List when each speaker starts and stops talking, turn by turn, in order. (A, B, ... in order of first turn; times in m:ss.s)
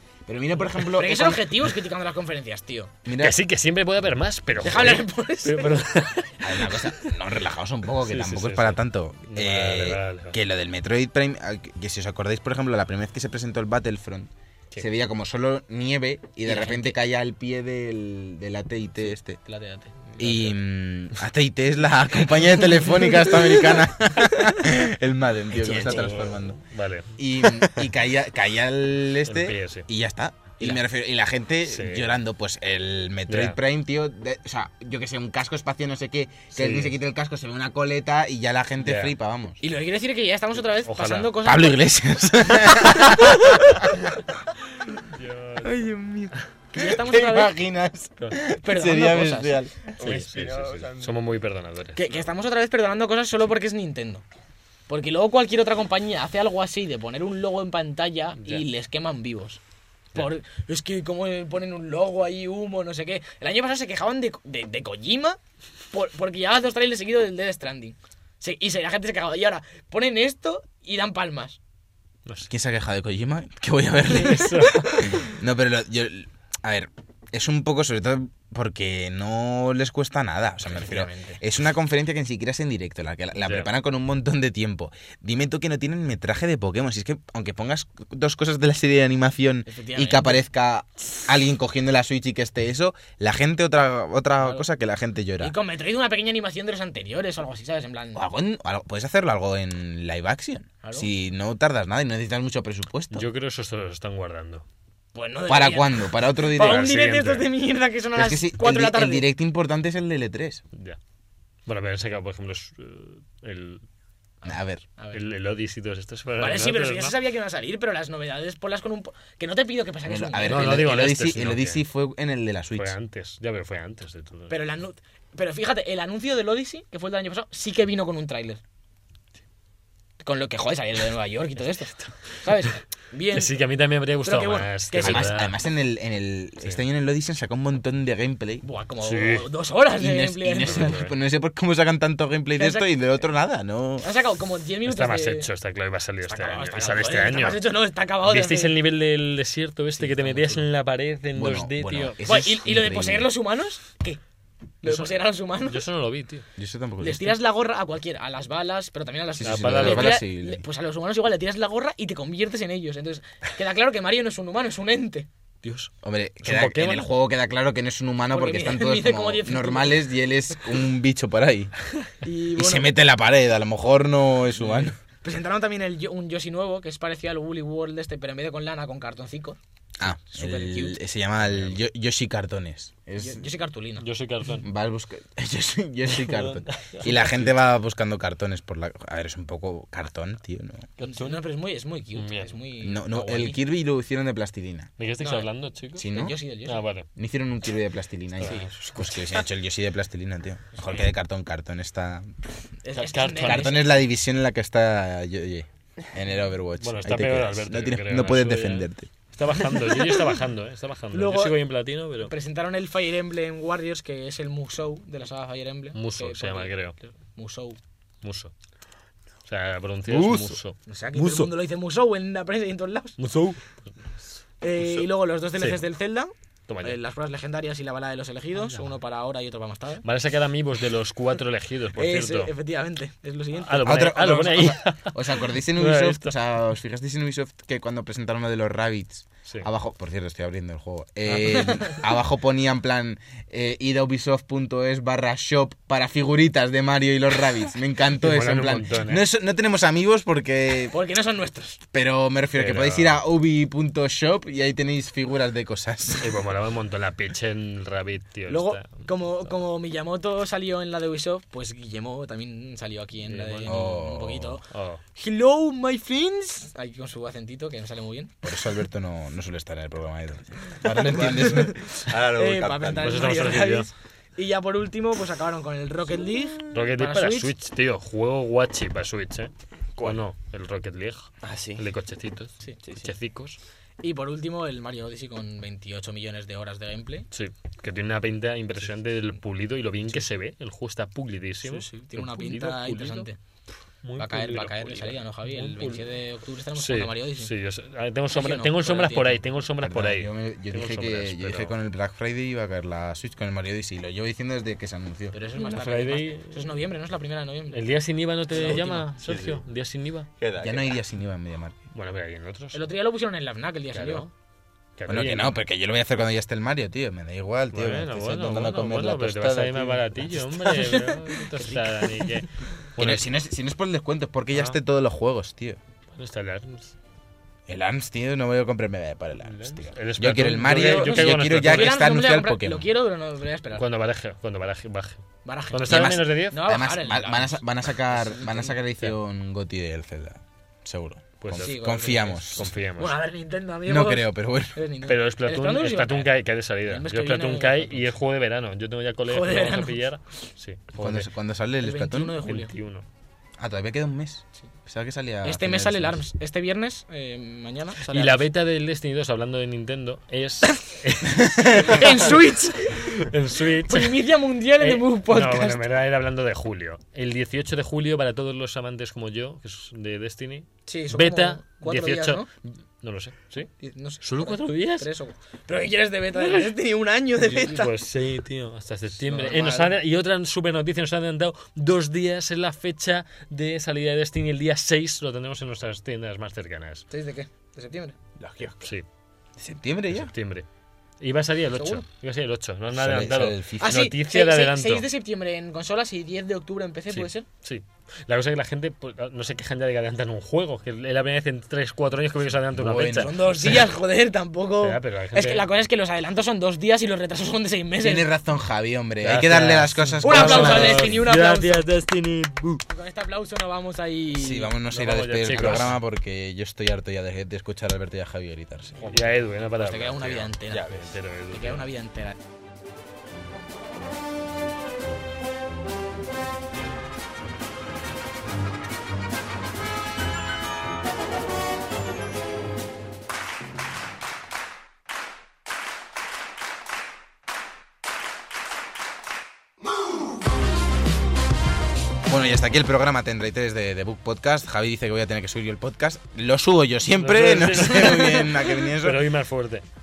0:00.3-0:01.8 A
0:00.8-0:02.9 B
0:03.0-0:03.4 A
0:03.2-0:07.1 C
0:04.6-0:06.1 B
0:06.4-0:19.4 A
0:08.0-0:10.4 C
0:16.4-0:17.0 B
0:19.0-0:20.5 B
0:20.2-0:26.6 A
0:22.9-0:23.3 B
0:25.6-0:26.3 B
0:25.6-0:27.6 C
0:27.2-0:39.6 A
0:29.2-0:29.9 C
0:31.7-0:32.1 C
0:33.3-0:33.6 C
0:36.5-0:36.9 C
0:38.8-0:39.1 C
0:39.6-0:41.8 B
0:40.8-0:41.3 C
0:41.4-0:44.0 A
0:45.1-0:45.6 C
0:45.6-0:47.5 B
0:46.2-0:49.9 A
0:48.5-0:49.6 B
0:49.9-0:51.2 D
0:50.0-0:52.2 C
0:51.9-0:54.2 B
0:54.9-0:59.6 B
1:00.1-1:05.4 B
1:05.9-1:11.6 B
1:12.5-1:35.5 A
1:14.1-1:15.1 C
1:20.6-1:21.4 B
1:23.4-1:23.7 C
1:29.7-1:30.4 B
1:35.4-1:38.2 B
1:38.1-1:43.3 A
1:40.8-1:41.1 B
1:43.1-1:44.6 C
1:45.1-1:49.3 B
1:45.5-1:47.0 A
1:46.5-1:47.5 C
1:48.2-1:50.6 A
1:50.7-1:51.0 C
1:51.7-1:53.8 C
1:54.4-1:55.2 B
1:54.4-1:54.8 A
1:55.1-1:57.1 C
1:56.4-2:00.9 B
2:00.0-2:03.0 A
2:00.4-2:01.8 C
2:02.8-2:04.6 C
2:04.5-2:08.6 B
2:10.2-2:13.6 B
2:11.8-2:12.3 C
2:13.3-2:15.5 C
2:14.2-2:15.3 B
2:15.0-2:18.6 A
2:18.6-2:21.0 B
2:19.0-2:19.5 C
2:20.0-2:24.0 A
2:20.6-2:21.1 C
2:22.6-2:22.9 B
2:24.0-2:25.5 B
2:24.8-2:27.7 C
2:26.2-2:28.7 B
2:28.2-2:32.2 C
2:30.0-2:30.6 B
2:31.3-2:33.3 A
2:32.2-2:34.2 B
2:34.8-2:35.8 B
2:34.8-2:36.4 C
2:36.6-2:37.4 A
2:37.0-2:45.3 B
2:39.4-2:40.6 A
2:39.4-2:40.2 C
2:45.6-2:45.9 C
2:46.0-2:51.7 A
2:46.4-2:47.1 C
2:48.3-2:50.1 B
2:52.2-2:52.9 B
2:52.6-2:55.0 A
2:54.6-2:54.9 C
2:55.2-3:01.0 B
3:00.0-3:03.4 A
3:03.2-3:04.0 B
3:04.0-3:04.6 C
3:04.6-3:10.9 A
3:06.1-3:07.6 C
3:11.0-3:11.4 C
3:11.0-3:13.6 B
3:12.2-3:12.6 C
3:12.8-3:14.9 A
3:15.0-3:17.1 C
3:15.2-3:16.8 B
3:16.0-3:16.4 A
3:17.1-3:22.3 A
3:18.4-3:19.4 C
3:18.4-3:18.7 B
3:22.8-3:23.9 B
3:22.9-3:23.8 C
3:23.4-3:29.1 A
3:26.8-3:32.3 C
3:29.8-3:30.1 B
3:31.1-3:31.6 B
3:32.2-3:37.8 B
3:35.9-3:37.0 C
3:38.2-3:38.5 C
3:39.4-3:41.5 C
3:40.1-3:40.4 A
3:40.8-3:43.2 B
3:43.2-3:44.4 C
3:44.6-3:50.0 B
3:46.7-3:47.0 C
3:50.0-3:52.5 C
3:52.0-3:53.9 B
3:53.6-3:56.3 C
3:53.8-4:11.0 A
4:01.3-4:02.0 B
4:08.2-4:09.2 C
4:10.9-4:11.8 B
4:11.9-4:16.3 A
4:12.5-4:13.2 C
4:16.2-4:19.0 C
4:18.5-4:28.3 B
4:23.3-4:23.8 C
4:23.6-4:24.6 A
4:24.7-4:25.0 C
4:28.4-4:31.8 A
4:30.8-4:37.5 B
4:31.1-4:33.6 D
4:33.0-4:33.9 C
4:36.7-4:43.6 C
4:41.4-4:41.8 D
4:42.8-4:43.1 D
4:44.0-4:47.3 B
4:47.3-4:53.3 C
4:51.6-4:53.4 B
4:54.0-4:56.1 C
4:54.2-4:57.5 B
4:56.8-5:01.7 C
4:58.3-4:59.4 B
4:59.8-5:05.3 A
5:05.3-5:07.8 B
5:05.6-5:06.8 C
5:07.7-5:10.3 C
5:08.5-5:09.1 B
5:09.2-5:09.6 D
5:10.4-5:11.0 D
5:10.6-5:11.8 A
5:11.9-5:12.8 C
5:12.7-5:14.3 B
5:13.9-5:14.3 C
5:15.0-5:15.6 C
5:15.1-5:21.0 A
5:17.7-5:23.3 C
5:21.6-5:22.4 B
5:23.0-5:25.8 A
5:26.2-5:26.9 C
5:27.7-5:32.8 A
5:29.4-5:32.0 C
5:30.7-5:33.8 B
5:33.7-5:36.6 C
5:35.4-5:38.8 B
5:35.9-5:42.7 A
5:41.4-5:43.2 C
5:41.6-5:46.3 B
5:43.8-5:44.8 A
5:45.1-5:51.3 C
5:46.8-5:48.1 B
5:49.3-5:50.0 B
5:51.0-5:52.4 A
5:51.8-5:52.7 B
5:52.4-5:53.0 C
5:53.6-5:56.2 A
5:55.4-5:58.5 B
5:58.0-6:13.7 C
6:01.4-6:01.8 A
6:01.7-6:03.1 B
6:03.9-6:05.8 B
6:10.8-6:12.5 B
6:13.8-6:18.0 B
6:14.2-6:15.1 C
6:17.4-6:27.1 C
6:19.2-6:19.9 B
6:27.1-6:28.2 B
6:28.4-6:28.8 D
6:29.6-6:30.3 A
6:30.1-6:30.6 C
6:31.2-6:35.0 C
6:31.7-6:32.0 B
6:32.9-6:33.9 A
6:33.8-6:37.4 B
6:37.1-6:43.9 C
6:42.7-6:43.3 A
6:43.1-6:48.3 B
6:44.8-6:45.7 C
6:48.0-6:51.2 A
6:49.2-6:52.8 C
6:50.2-6:51.9 B
6:52.9-6:54.8 B
6:54.4-6:59.1 A
6:54.9-6:56.0 C
6:59.0-7:01.9 C
6:59.8-7:01.0 B
7:00.7-7:01.1 D
7:01.5-7:02.4 B
7:22.3-7:29.3 A
7:27.2-7:29.8 C